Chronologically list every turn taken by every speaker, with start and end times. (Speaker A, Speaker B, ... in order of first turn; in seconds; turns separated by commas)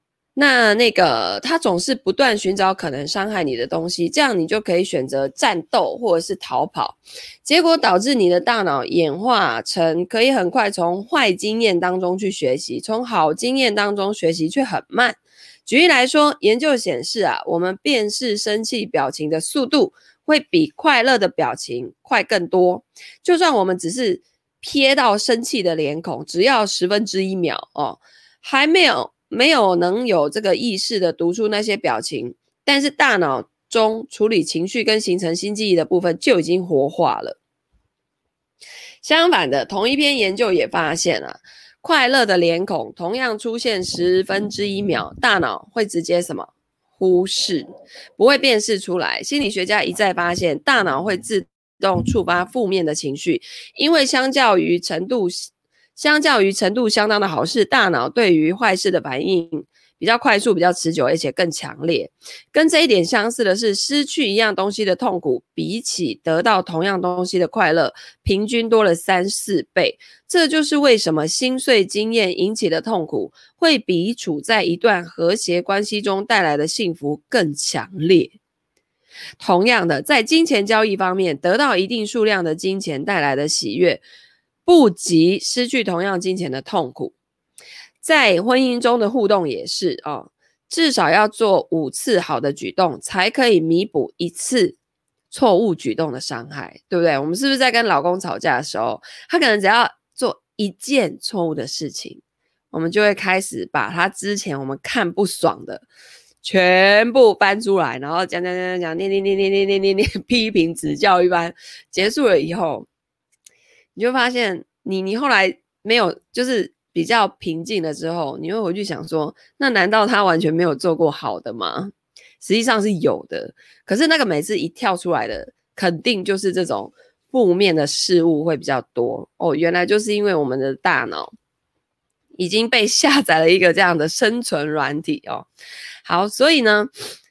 Speaker A: 0.4-37.4, Speaker A: 39.0-78.4, Speaker A: 79.4-84.0, Speaker A: 84.7-87.1, Speaker A: 88.0-94.8, Speaker A: 95.3-105.8, Speaker A: 106.4-112.9, Speaker A: 114.0-131.3, Speaker A: 132.4-135.5, Speaker A: 136.1-136.9